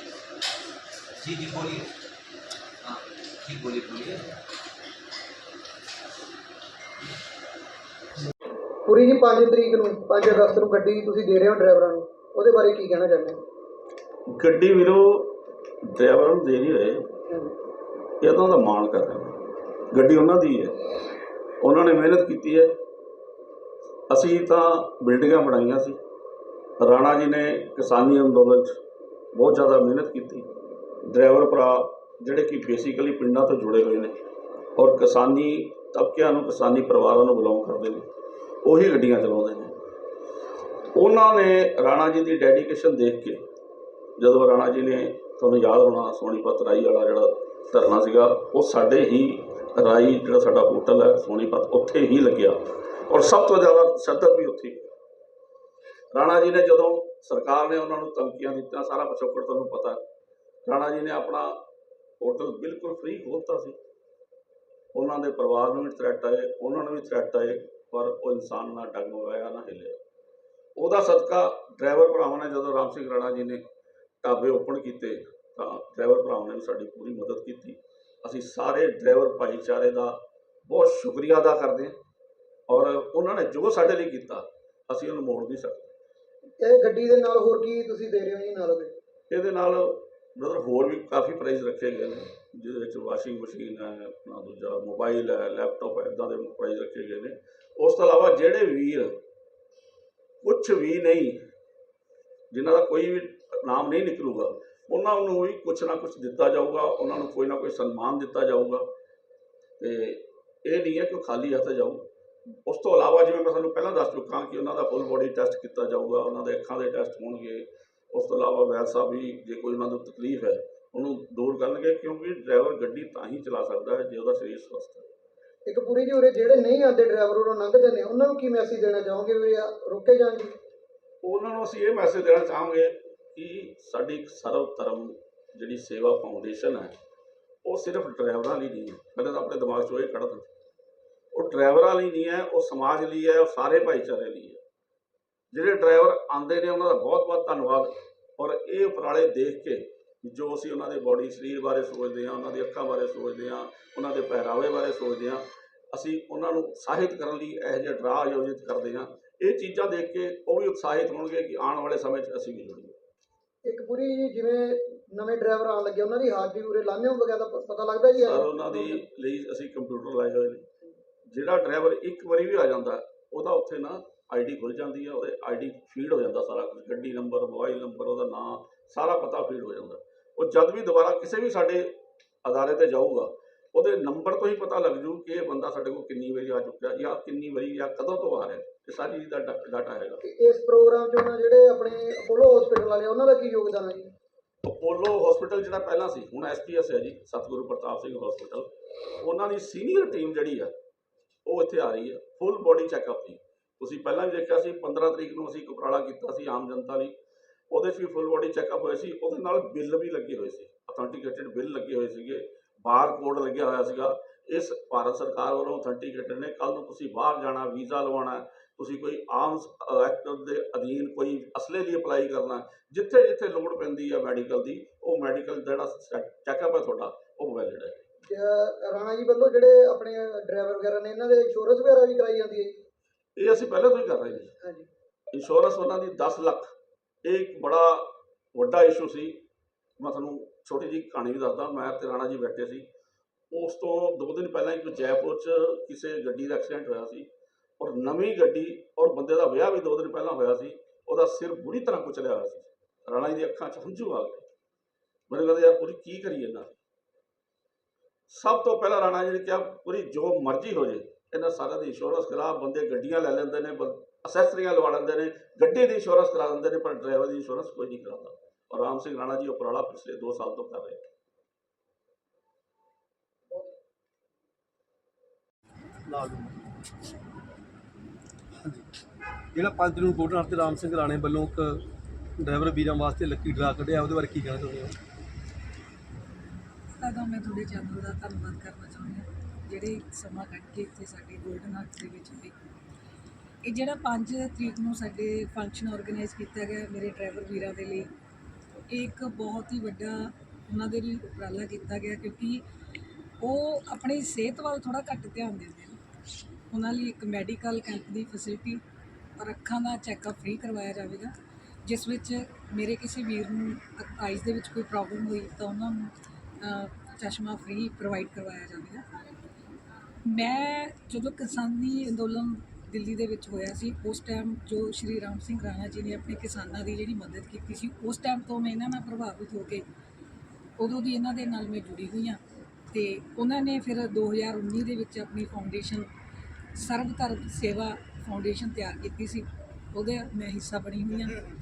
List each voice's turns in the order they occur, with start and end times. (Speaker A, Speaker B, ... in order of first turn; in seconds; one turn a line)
Speaker A: 1.2-1.9
Speaker A: 2.9-4.2
Speaker B: 8.8-13.4
Speaker C: 14.3-15.3
Speaker C: 15.9-17.1
Speaker B: 17.3-17.5
Speaker C: 18.2-19.4
Speaker C: 19.9-20.8
Speaker C: 21.6-22.7
Speaker C: 24.1-26.0
Speaker C: 26.8-28.7
Speaker C: 29.3-30.5
Speaker C: 31.1-34.2
Speaker C: 34.8-38.1
Speaker C: 38.6-39.8
Speaker C: 40.9-43.4
Speaker C: 44.2-54.9
Speaker C: 56.1-60.0
Speaker C: 60.6-61.6
Speaker C: 62.2-63.8
Speaker C: 64.9-70.0
Speaker C: 70.8-73.7
Speaker C: 74.2-82.0
Speaker C: 82.7-85.9
Speaker B: 86.6-88.9
Speaker C: 89.3-99.2
Speaker C: 100.4-101.4
Speaker C: 102.5-108.9
Speaker C: 109.8-112.0
Speaker C: 112.6-125.1
Speaker B: 125.7-130.5
Speaker C: 131.2-136.9
Speaker C: 137.6-140.5
Speaker C: 141.3-144.6
Speaker C: 145.5-163.0
Speaker B: 163.6-169.0
Speaker C: 168.2-170.7
Speaker C: 171.3-190.2
Speaker B: 190.2-194.1
Speaker C: 194.6-200.7
Speaker C: 201.4-207.2
Speaker C: 207.7-228.0
Speaker B: 228.3-232.7
Speaker C: 233.4-234.5
Speaker B: 234.6-234.9
Speaker C: 235.3-236.7
Speaker C: 237.2-239.4
Speaker C: 240.0-242.9
Speaker C: 243.5-254.4
Speaker C: 255.3-256.7
Speaker C: 258.3-271.0
Speaker D: 276.1-276.5
Speaker D: 279.5-281.8
Speaker D: 282.4-284.9
Speaker E: 286.9-292.6
Speaker E: 293.6-298.1
Speaker E: 298.9-302.6
Speaker E: 303.4-306.0
Speaker E: 306.7-308.8
Speaker E: 309.4-311.3
Speaker E: 311.8-319.0
Speaker E: 320.2-329.8
Speaker E: 330.8-336.1
Speaker E: 336.7-341.4